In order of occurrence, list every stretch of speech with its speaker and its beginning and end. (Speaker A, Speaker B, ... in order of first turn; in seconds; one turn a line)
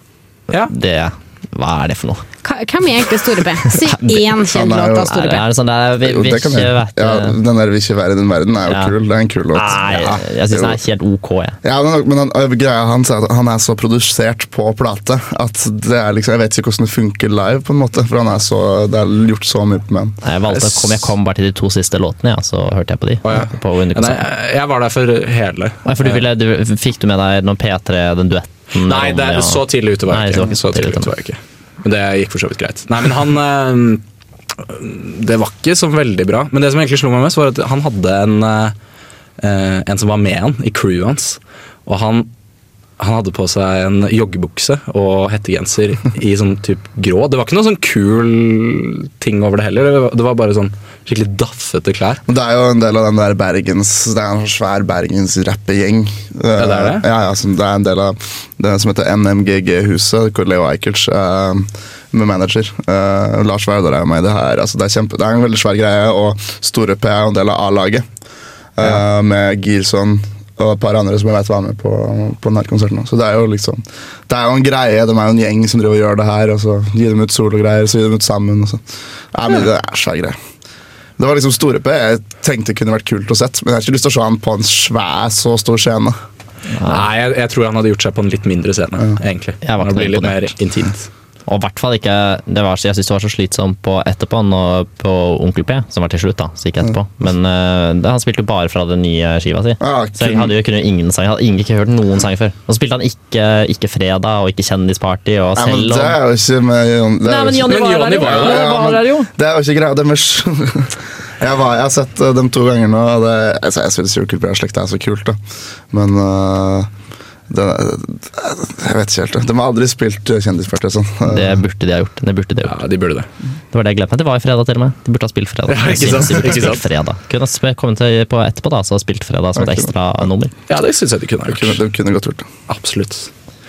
Speaker A: 0.5-2.2
Speaker B: 2.4-5.5
Speaker C: 4.3-5.2
Speaker A: 5.1-7.4
Speaker C: 6.0-10.8
Speaker A: 8.7-8.9
Speaker A: 9.5-11.6
Speaker D: 9.9-10.2
Speaker C: 11.6-20.2
Speaker A: 20.2-24.2
Speaker D: 20.5-21.1
Speaker D: 23.2-26.3
Speaker A: 25.9-31.1
Speaker D: 28.8-34.0
Speaker D: 34.6-38.8
Speaker D: 39.4-42.3
Speaker D: 43.0-52.2
Speaker C: 52.3-68.1
Speaker D: 56.6-57.1
Speaker C: 68.8-78.8
Speaker C: 79.3-80.4
Speaker C: 81.2-86.2
Speaker A: 86.7-87.1
Speaker D: 86.8-91.1
Speaker A: 89.6-90.5
Speaker A: 91.5-106.2
Speaker C: 99.8-100.5
Speaker C: 105.6-115.4
Speaker A: 107.2-109.3
Speaker D: 107.6-108.7
Speaker C: 115.9-116.9
Speaker C: 117.5-121.6
Speaker A: 121.3-122.8
Speaker D: 122.6-123.3
Speaker A: 123.7-130.5
Speaker D: 125.7-126.8
Speaker C: 129.6-129.9
Speaker D: 130.7-131.8
Speaker C: 131.5-132.5
Speaker D: 132.7-133.3